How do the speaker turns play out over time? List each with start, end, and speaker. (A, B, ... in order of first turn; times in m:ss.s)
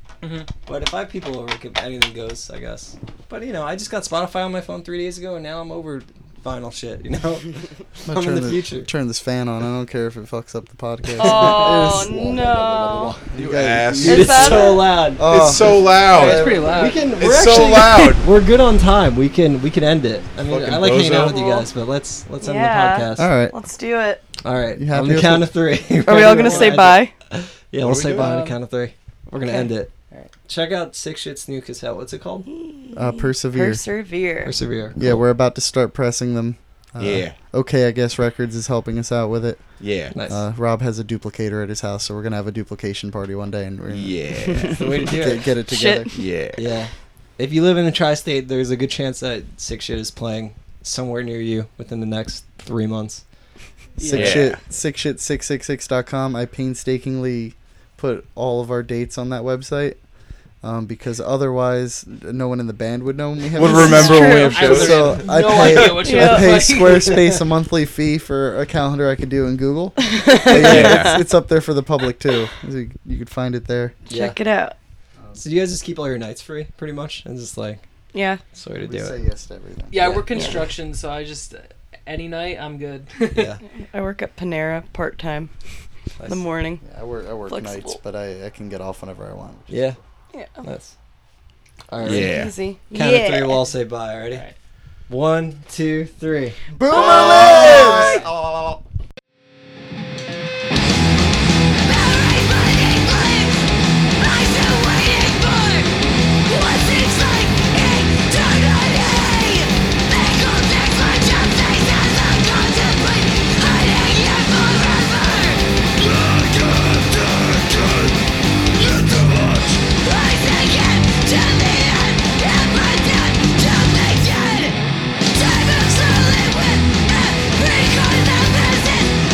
0:00.2-0:00.5 A
0:00.6-0:08.9 B
0:08.0-0:15.9 C
0:11.1-0:12.1 B
0:11.2-0:13.2 D
0:13.4-0:14.6 E
0:14.0-0:23.3 B
0:14.0-0:15.1 D
0:15.2-0:18.2 E
0:16.1-0:17.0 A
0:20.4-0:21.4 E
0:21.2-0:21.7 D
0:22.4-0:24.2 D
0:23.1-0:23.5 C
0:24.4-0:29.9 B
0:24.7-0:25.6 C
0:26.0-0:27.1 D
0:26.2-0:26.8 A
0:27.8-0:28.4 E
0:28.1-0:28.6 A
0:30.4-0:32.5 B
0:32.4-0:34.5 D
0:32.9-0:33.8 C
0:34.4-0:35.2 B
0:35.0-0:46.2 C
0:37.0-0:37.4 E
0:39.8-0:40.1 E
0:40.1-0:40.4 B
0:43.9-0:44.8 E
0:44.7-0:45.5 B
0:45.7-0:46.1 D
0:46.1-0:46.6 E
0:46.6-0:53.2 B
0:54.0-0:54.4 A
0:54.0-1:00.0 C
0:54.1-0:54.6 E
1:00.6-1:13.9 C
1:03.5-1:05.9 E
1:03.6-1:04.9 D
1:03.8-1:07.4 A
1:05.9-1:06.7 D
1:10.1-1:11.2 D
1:10.5-1:11.2 E
1:14.1-1:14.4 B
1:14.1-1:14.8 D
1:15.3-1:17.8 B
1:18.1-1:18.4 D
1:18.5-1:19.2 B
1:18.8-1:20.1 C
1:19.9-1:23.5 A
1:19.9-1:20.6 B
1:23.3-1:23.6 B
1:23.7-1:25.5 D
1:26.2-1:26.4 B
1:26.2-1:26.8 D
1:26.8-1:29.9 C
1:27.5-1:28.0 D
1:29.7-1:30.0 B
1:30.3-1:30.6 D
1:30.6-1:30.9 B
1:31.9-1:32.3 B
1:32.0-1:32.5 E
1:32.2-1:33.6 D
1:32.9-1:34.4 B
1:34.3-1:34.5 A
1:35.1-1:36.6 B
1:36.8-1:38.2 C
1:36.9-1:38.2 D
1:36.9-1:38.8 E
1:50.7-1:51.6 B
1:52.4-1:53.0 B
1:53.8-1:54.4 B
2:00.4-2:02.4 B
2:03.0-2:04.5 B
2:05.6-2:06.3 B
2:07.4-2:08.7 B